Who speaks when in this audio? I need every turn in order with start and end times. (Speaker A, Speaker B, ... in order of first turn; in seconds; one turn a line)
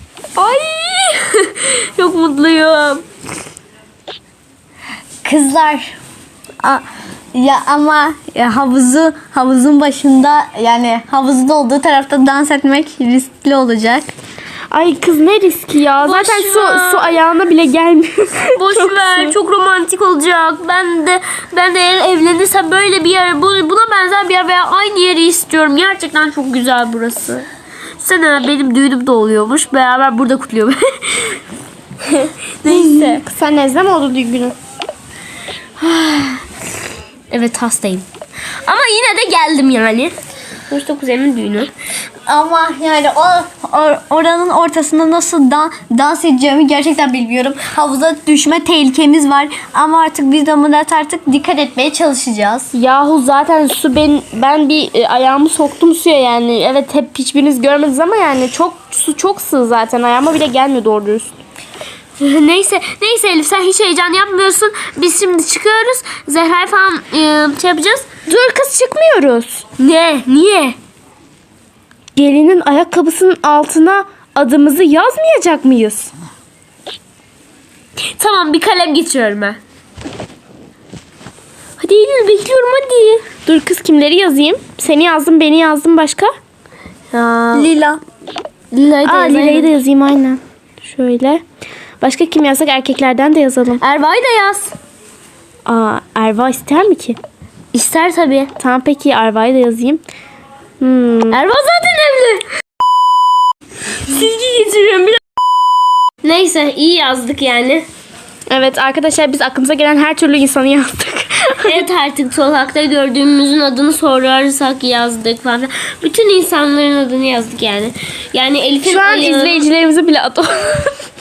Speaker A: 0.4-3.0
Speaker B: 5.2-6.0
Speaker B: 6.6-14.1
Speaker C: 14.7-19.3
Speaker A: 16.0-17.1
Speaker A: 18.5-27.5
Speaker A: 28.0-31.4
Speaker C: 32.1-34.6
Speaker A: 32.6-33.2
Speaker A: 35.8-36.4
Speaker A: 37.3-38.1
Speaker A: 38.6-40.1
Speaker A: 40.7-41.7
Speaker B: 42.3-52.7
Speaker C: 52.7-61.3
Speaker A: 62.2-68.1
Speaker C: 68.3-69.6
Speaker A: 69.8-70.8
Speaker C: 72.2-76.1
Speaker A: 78.2-79.6
Speaker A: 81.8-83.2
Speaker C: 83.5-86.3
Speaker A: 87.1-87.7
Speaker B: 87.5-88.0
Speaker A: 88.7-89.7
Speaker C: 89.0-91.4
Speaker C: 92.0-93.8
Speaker A: 93.8-94.8
Speaker C: 95.7-97.2
Speaker A: 97.7-98.5
Speaker C: 98.6-100.0
Speaker C: 100.8-101.4
Speaker A: 101.3-102.5
Speaker A: 104.0-105.2
Speaker A: 106.2-107.9
Speaker C: 108.5-111.8
Speaker A: 111.6-119.7
Speaker C: 118.9-120.9